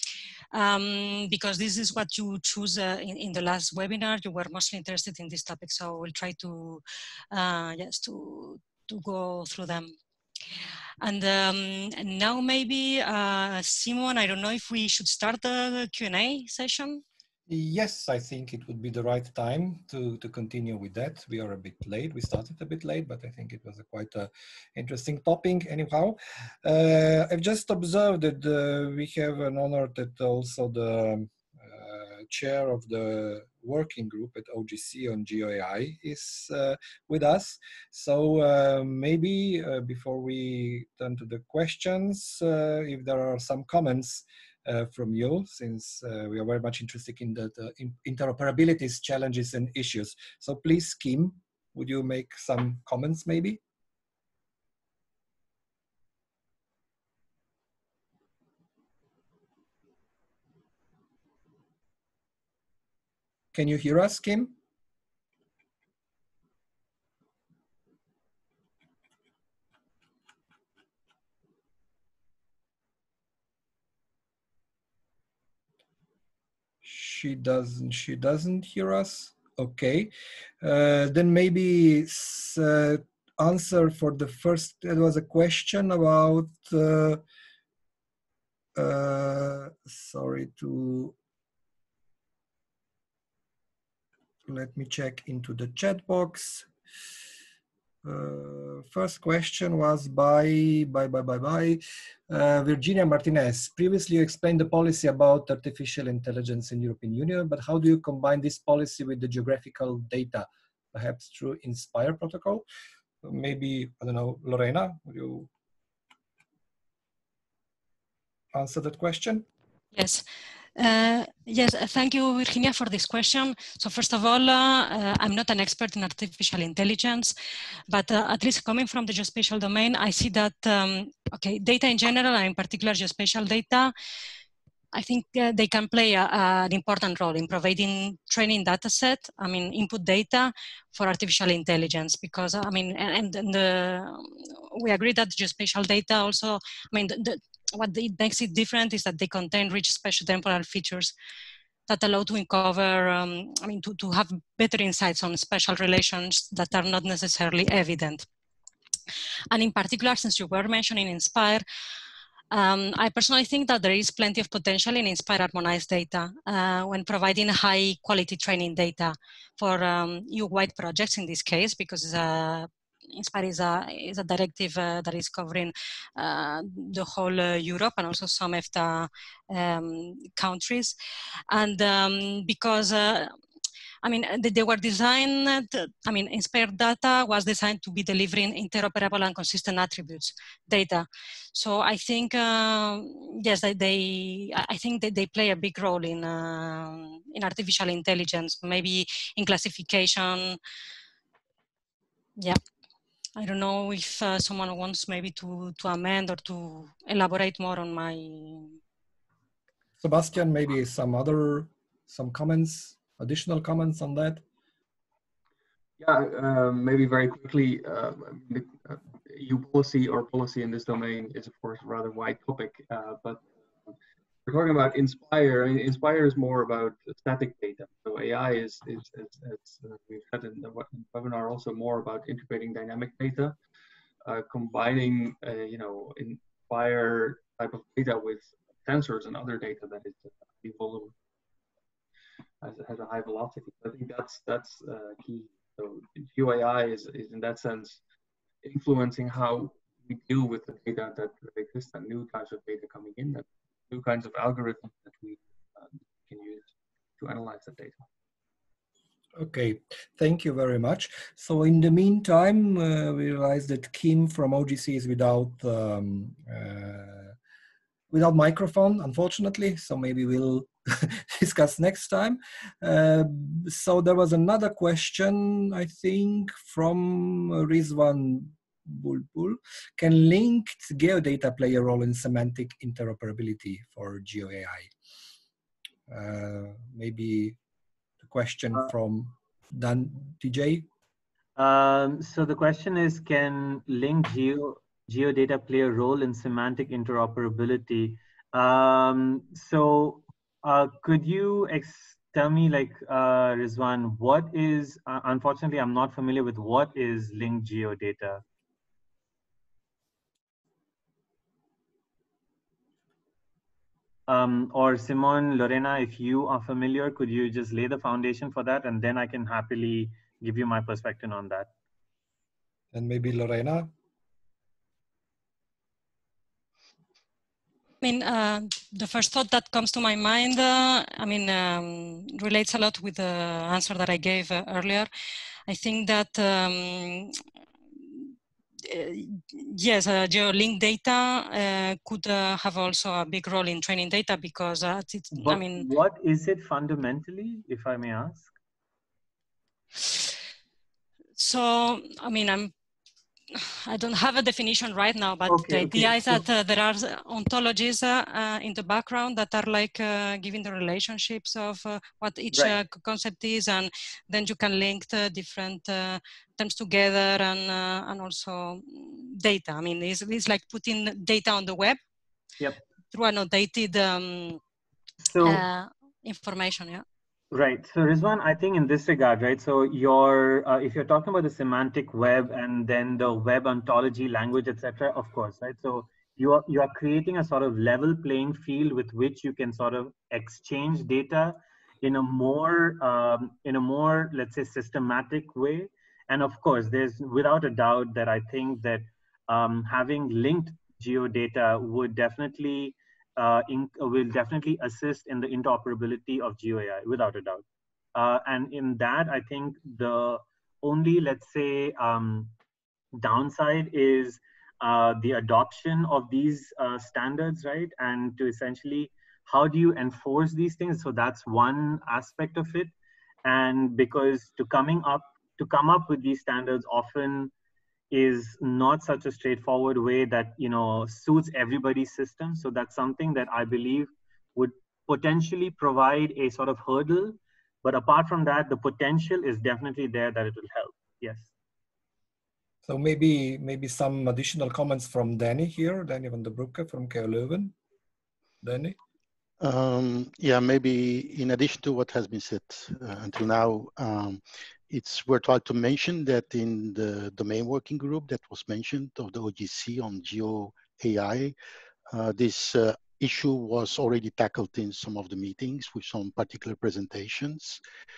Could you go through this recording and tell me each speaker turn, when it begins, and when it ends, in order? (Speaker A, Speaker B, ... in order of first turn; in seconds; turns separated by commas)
Speaker A: 0.5-9.9, Speaker A: 11.0-17.0, Speaker B: 17.5-53.6, Speaker B: 63.5-64.5, Speaker B: 76.8-87.2, Speaker B: 88.8-91.2, Speaker B: 94.5-96.7, Speaker B: 98.0-112.7, Speaker B: 113.2-115.5, Speaker B: 118.5-119.5, Speaker A: 119.9-120.2, Speaker A: 120.8-127.3, Speaker A: 127.9-133.9, Speaker A: 134.9-151.1, Speaker A: 151.9-158.3, Speaker A: 159.5-161.6, Speaker A: 162.5-181.0, Speaker A: 181.5-183.3, Speaker A: 184.0-200.6, Speaker A: 203.4-208.8, Speaker B: 210.0-214.4, Speaker C: 216.0-223.9, Speaker C: 224.5-233.6, Speaker C: 234.2-241.1, Speaker C: 242.6-248.0, Speaker C: 248.6-258.0, Speaker B: 259.4-267.3, Speaker B: 268.1-284.9, Speaker B: 286.1-287.6, Speaker B: 288.2-290.9, Speaker D: 291.6-308.4, Speaker D: 314.3-321.7, Speaker B: 322.9-323.9, Speaker A: 328.0-335.1, Speaker A: 335.7-337.3, Speaker A: 338.9-345.9, Speaker D: 345.4-348.5, Speaker A: 350.0-350.3, Speaker A: 351.4-352.7, Speaker A: 353.5-372.0, Speaker D: 355.5-356.4, Speaker A: 373.1-374.6, Speaker D: 375.2-375.6, Speaker A: 375.4-377.0, Speaker D: 377.5-412.6, Speaker D: 413.1-422.9, Speaker D: 423.4-427.5, Speaker D: 428.1-441.5, Speaker B: 442.9-447.8, Speaker B: 448.6-449.0, Speaker E: 449.6-461.6, Speaker E: 462.1-467.8